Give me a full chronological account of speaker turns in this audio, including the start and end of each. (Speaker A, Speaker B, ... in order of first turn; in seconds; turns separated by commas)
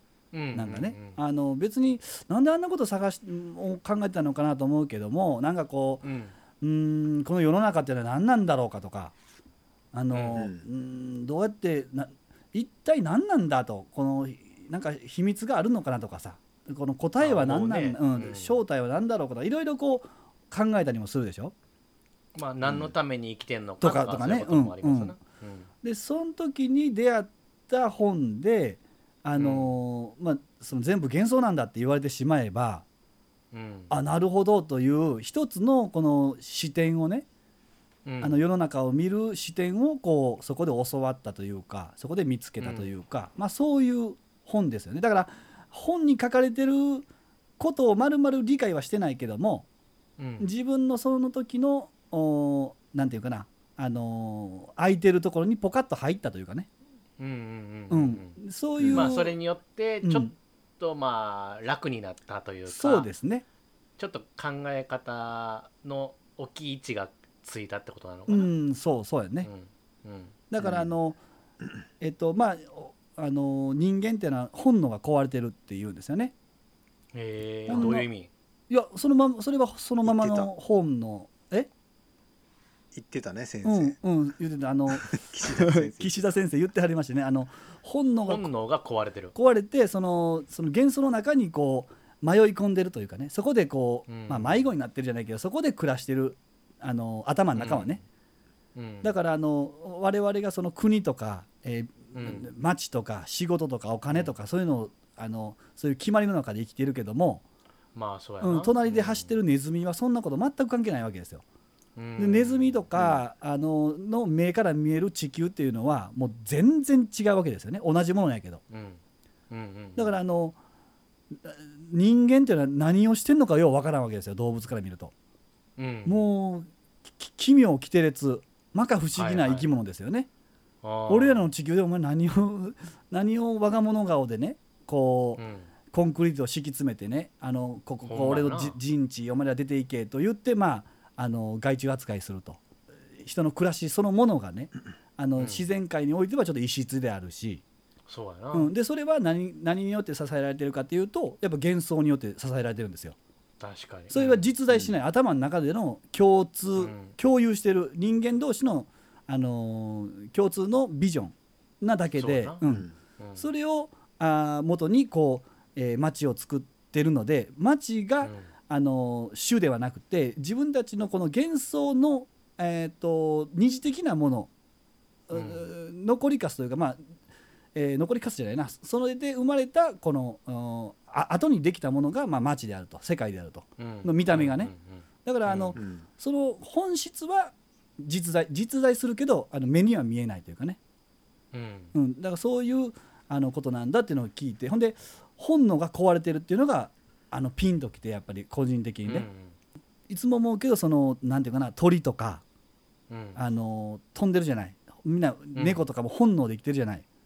Speaker A: 0.3-1.2, Speaker B: 0.5-6.0, Speaker A: 6.0-6.3, Speaker B: 6.6-9.1, Speaker B: 9.9-21.5, Speaker A: 10.1-10.4, Speaker C: 10.3-10.7, Speaker A: 17.2-18.6, Speaker A: 22.4-25.7, Speaker B: 23.8-25.1, Speaker B: 25.8-32.9, Speaker A: 29.4-29.7, Speaker A: 33.5-33.9, Speaker B: 33.9-37.2, Speaker A: 38.1-38.4, Speaker B: 38.2-47.1, Speaker A: 42.6-42.9, Speaker B: 47.6-49.7, Speaker A: 50.2-50.5, Speaker B: 50.4-56.7, Speaker A: 57.2-58.4, Speaker B: 57.9-59.4, Speaker C: 58.8-59.1, Speaker A: 58.9-63.1, Speaker B: 60.0-60.3, Speaker B: 62.7-63.4, Speaker A: 64.0-68.5, Speaker B: 68.3-69.5, Speaker A: 69.4-70.4, Speaker B: 70.5-71.2, Speaker B: 72.0-76.3, Speaker A: 77.1-78.3, Speaker B: 77.7-78.1, Speaker B: 78.7-81.7, Speaker C: 80.0-80.5, Speaker C: 82.9-84.0, Speaker B: 83.6-88.5, Speaker C: 84.9-86.3, Speaker A: 88.2-89.3, Speaker B: 89.3-98.0, Speaker A: 94.1-94.7, Speaker A: 97.5-98.0, Speaker A: 98.8-99.2, Speaker B: 99.0-107.4, Speaker A: 102.1-102.5, Speaker A: 107.9-109.3, Speaker B: 108.4-111.4, Speaker A: 112.0-112.8, Speaker B: 112.2-118.6, Speaker C: 112.9-113.2, Speaker A: 118.7-119.0, Speaker A: 119.5-120.2, Speaker B: 120.0-120.6, Speaker B: 121.4-125.1, Speaker A: 125.8-126.2, Speaker B: 126.1-130.3, Speaker A: 129.2-129.7, Speaker A: 130.8-131.5, Speaker B: 131.1-142.6, Speaker A: 135.4-135.7, Speaker A: 138.0-138.8, Speaker B: 143.2-147.6, Speaker A: 145.4-145.7, Speaker A: 148.1-148.7, Speaker B: 148.5-153.2, Speaker A: 153.6-154.5, Speaker B: 154.1-174.5, Speaker A: 156.8-157.2, Speaker A: 162.2-162.6, Speaker C: 162.6-162.9, Speaker A: 163.2-163.4, Speaker A: 168.2-168.5, Speaker B: 175.3-177.0, Speaker A: 175.3-175.7, Speaker B: 177.8-184.7, Speaker A: 183.8-185.8, Speaker B: 185.2-190.8, Speaker C: 185.8-186.1, Speaker A: 191.5-191.9, Speaker B: 191.9-199.2, Speaker A: 199.1-199.5, Speaker B: 200.1-202.4, Speaker A: 203.1-203.4, Speaker B: 203.4-207.0, Speaker A: 205.5-205.8